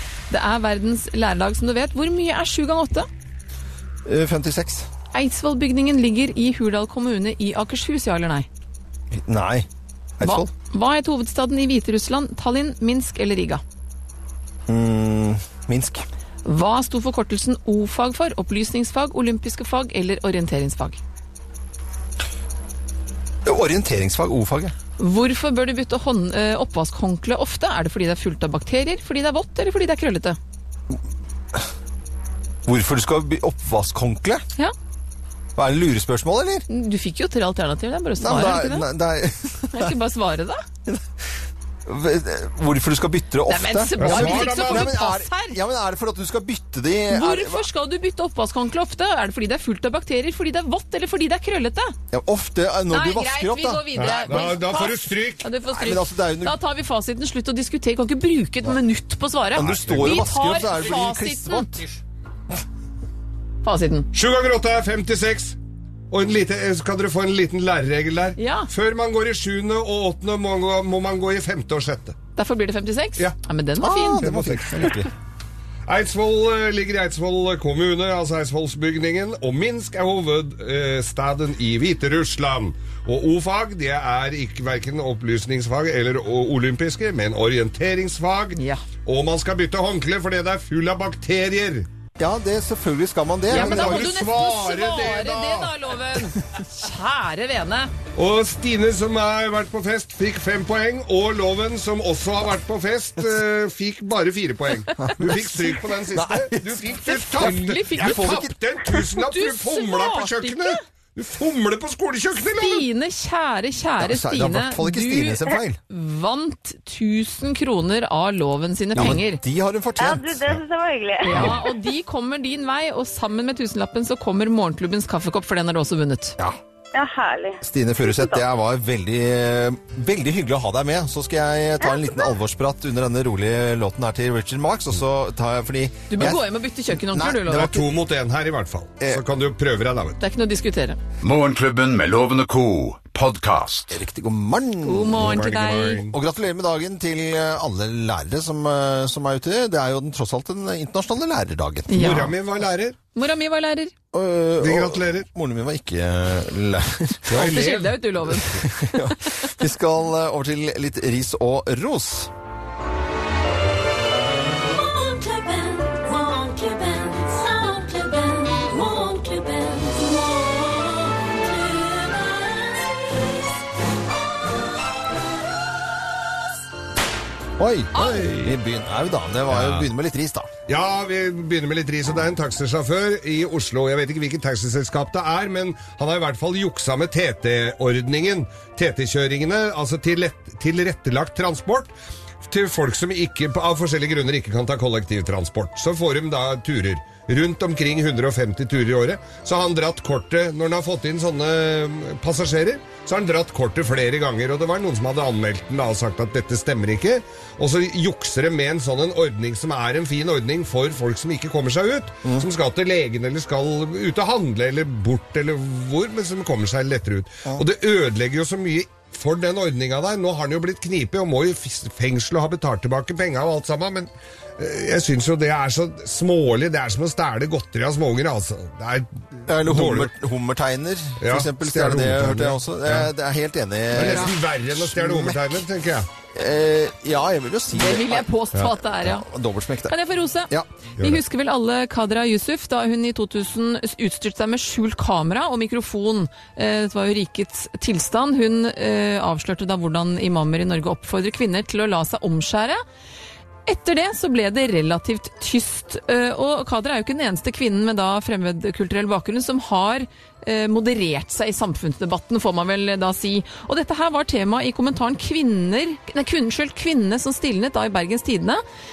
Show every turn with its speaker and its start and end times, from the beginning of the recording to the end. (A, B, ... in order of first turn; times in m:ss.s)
0:00.3-0:03.1 A
0:04.1-0:04.9 B
0:05.1-0:08.5 A
0:09.1-0:09.7 B
0:10.2-0:10.5 B
0:10.2-0:13.6 A
0:14.7-0:16.0 B
0:16.4-0:21.0 A
0:23.4-0:24.7 B
0:25.0-0:30.4 A
0:32.6-0:34.4 B
0:35.6-0:36.6 B
0:36.7-0:38.9 A
0:38.2-0:39.9 B
0:39.7-0:40.6 A
0:41.9-0:47.6 B
0:43.5-0:45.6 A
0:44.0-0:44.9 C
0:47.1-0:52.0 A
0:52.1-0:54.6 B
0:52.9-1:01.8 A
0:54.0-0:55.4 C
0:55.7-0:56.6 B
0:59.6-1:01.9 B
0:59.6-1:00.2 C
1:03.6-1:04.1 A
1:04.1-1:05.6 C
1:06.1-1:12.2 C
1:08.4-1:08.7 A
1:12.4-1:14.2 A
1:13.8-1:15.1 B
1:14.2-1:14.9 C
1:15.9-1:31.9 C
1:28.6-1:28.8 A
1:32.2-1:34.1 B
1:33.5-1:35.8 C
1:33.5-1:37.9 A
1:38.2-1:52.8 C
1:45.0-1:45.4 B
1:46.1-1:48.5 B
1:47.0-1:50.8 A
1:52.6-1:59.4 A
1:54.0-1:55.8 B
1:58.9-2:00.6 B
2:00.0-2:01.7 D
2:01.2-2:06.4 A
2:01.3-2:01.6 B
2:06.9-2:08.4 D
2:07.6-2:17.9 B
2:16.1-2:17.8 A
2:17.5-2:20.2 C
2:20.2-2:21.0 A
2:21.2-2:24.0 E
2:23.9-2:25.4 B
2:24.8-2:26.0 A
2:25.2-2:26.2 C
2:26.1-2:32.2 B
2:31.9-2:32.3 A
2:31.9-2:33.0 C
2:33.1-2:33.9 A
2:34.1-2:37.5 B
2:34.6-2:35.3 C
2:37.3-2:38.0 C
2:37.3-2:39.4 A
2:38.5-2:42.3 B
2:44.7-2:52.9 F
2:57.6-3:00.5 B
2:58.0-2:58.2 A
2:58.0-2:58.5 C
2:59.5-2:59.9 C
3:00.7-3:11.9 C
3:12.5-3:50.1 C
3:49.5-3:55.5 B
3:51.2-3:53.1 C
3:53.9-3:56.1 C
3:56.3-3:58.3 B
3:57.7-3:59.3 A
3:59.0-4:00.0 B
3:59.9-4:12.8 A
4:13.7-4:28.6 A